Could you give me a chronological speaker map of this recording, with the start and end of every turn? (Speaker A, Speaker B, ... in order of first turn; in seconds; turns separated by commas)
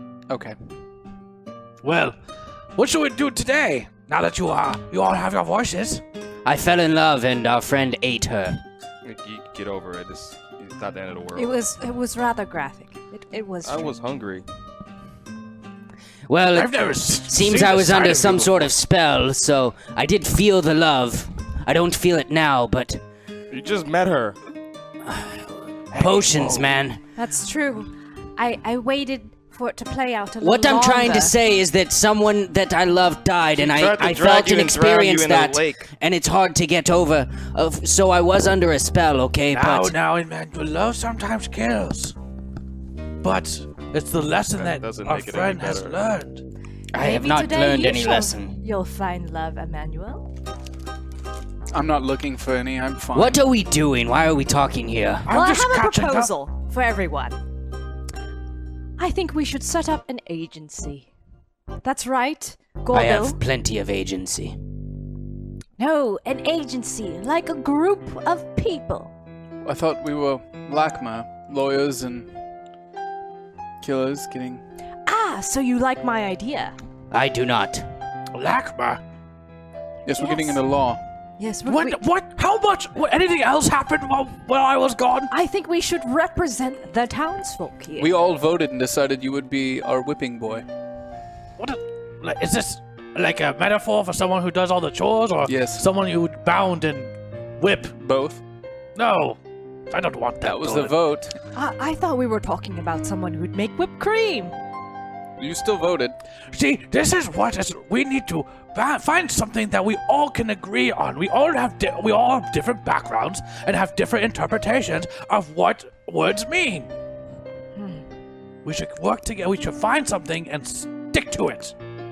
Speaker A: 0.3-0.6, Speaker B: 1.8-2.2, Speaker B: 2.8-6.0, Speaker C: 6.4-8.6, Speaker D: 9.0-11.6, Speaker E: 11.3-13.9, Speaker D: 13.6-14.4, Speaker C: 16.3-23.0, Speaker B: 16.5-18.7, Speaker D: 23.5-24.4, Speaker B: 25.9-26.7, Speaker C: 25.9-27.0, Speaker E: 27.1-31.3, Speaker C: 30.4-39.9, Speaker D: 33.5-35.9, Speaker B: 39.5-42.1, Speaker B: 43.2-46.4, Speaker D: 44.5-46.0, Speaker C: 46.9-48.6, Speaker E: 46.9-50.2, Speaker A: 51.7-53.4, Speaker C: 53.1-55.3, Speaker B: 55.2-56.3, Speaker E: 55.3-57.4, Speaker E: 59.0-61.1, Speaker E: 61.8-63.4, Speaker C: 62.9-64.6, Speaker E: 65.8-69.1, Speaker A: 69.6-72.3, Speaker A: 73.8-74.6, Speaker E: 75.0-76.7, Speaker C: 77.1-77.8, Speaker B: 78.3-79.0, Speaker A: 80.0-81.0, Speaker E: 80.1-80.6, Speaker E: 81.4-82.0, Speaker B: 81.7-85.3, Speaker E: 85.3-88.1, Speaker A: 88.0-90.6, Speaker B: 91.6-97.9, Speaker A: 95.5-95.9, Speaker A: 97.9-98.4, Speaker B: 99.0-99.4, Speaker B: 99.9-101.0, Speaker A: 100.4-101.3, Speaker E: 101.5-104.5, Speaker A: 105.4-106.2, Speaker B: 106.5-116.9, Speaker E: 117.8-118.0, Speaker B: 118.6-121.7